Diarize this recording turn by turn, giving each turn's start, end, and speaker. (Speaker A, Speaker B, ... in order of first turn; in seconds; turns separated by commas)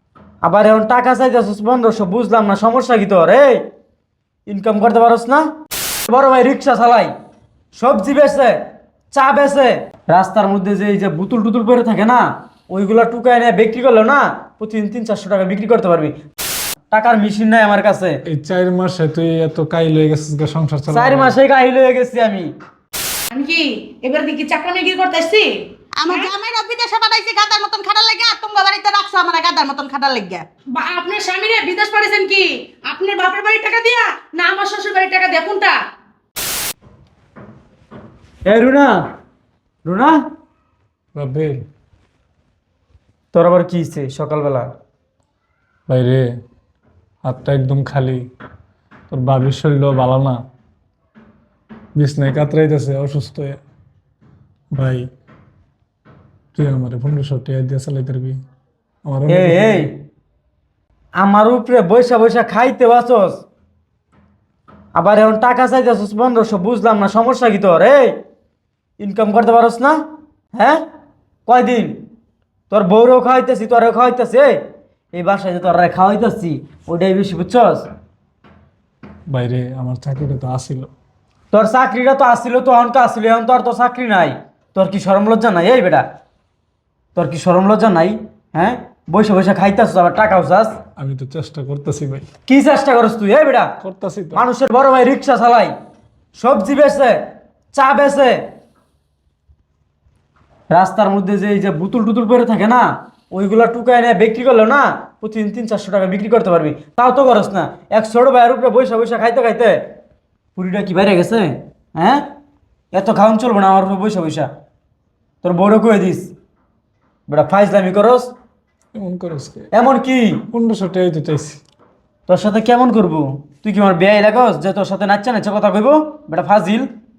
Speaker A: 0.4-3.6, Speaker A: 4.5-5.5, Speaker A: 6.1-7.1, Speaker A: 7.7-8.6, Speaker A: 9.1-16.2, Speaker A: 16.9-18.2, Speaker B: 18.3-21.4, Speaker A: 20.9-22.5, Speaker C: 23.3-25.5, Speaker D: 26.0-30.4, Speaker C: 30.7-35.8, Speaker A: 38.5-39.0, Speaker A: 39.8-40.2, Speaker B: 41.1-41.6, Speaker A: 43.3-44.7, Speaker B: 45.9-46.2, Speaker B: 47.2-48.2, Speaker B: 49.1-50.4, Speaker B: 52.0-53.6, Speaker B: 54.7-55.1, Speaker B: 56.5-58.4, Speaker B: 59.0-59.9, Speaker A: 59.3-59.9, Speaker A: 61.2-63.4, Speaker A: 64.9-68.1, Speaker A: 69.0-70.0, Speaker A: 70.5-70.8, Speaker A: 71.5-72.0, Speaker A: 72.7-74.6, Speaker A: 75.1-77.9, Speaker B: 79.3-80.9, Speaker A: 81.5-86.0, Speaker A: 87.1-90.8, Speaker B: 91.0-92.3, Speaker A: 92.5-93.7, Speaker B: 93.8-94.4, Speaker A: 94.3-95.7, Speaker A: 96.3-97.2, Speaker A: 97.7-98.4, Speaker A: 100.7-109.8, Speaker A: 110.5-112.2, Speaker A: 112.9-114.5, Speaker A: 115.4-116.3, Speaker A: 117.3-118.3, Speaker B: 118.9-119.7, Speaker A: 119.7-120.4, Speaker B: 120.5-121.6, Speaker A: 122.3-126.9